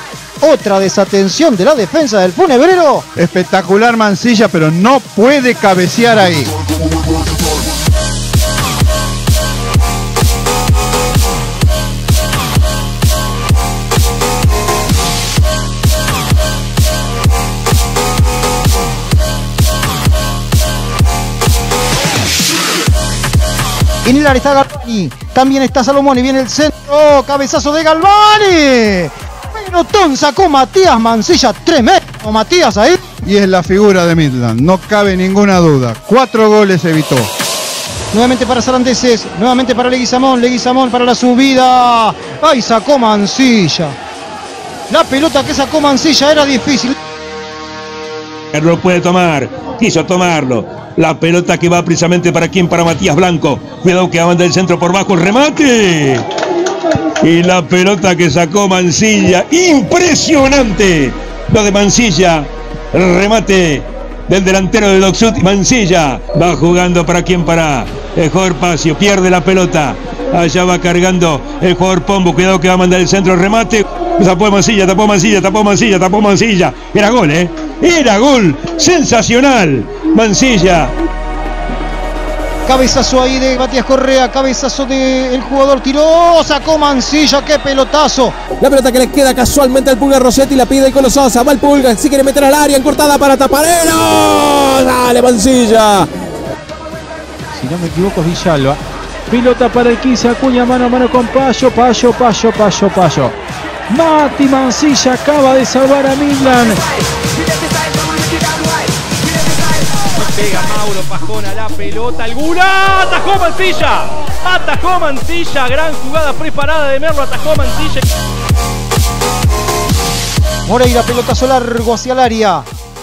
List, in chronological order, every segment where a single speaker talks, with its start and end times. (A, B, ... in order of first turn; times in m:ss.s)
0:00.4-0:03.1 A
0:03.2-0:06.6 B
0:24.0-0:33.1 A
0:33.2-0:37.3 B
0:38.1-0:44.0 A
0:44.9-0:46.9 A
0:48.5-0:56.2 C
0:57.2-1:20.9 C
1:22.6-1:28.4 A
1:28.6-1:36.1 D
1:37.5-1:43.4 E
1:43.9-1:46.8 E
1:50.1-1:58.0 F
2:00.6-2:02.7 A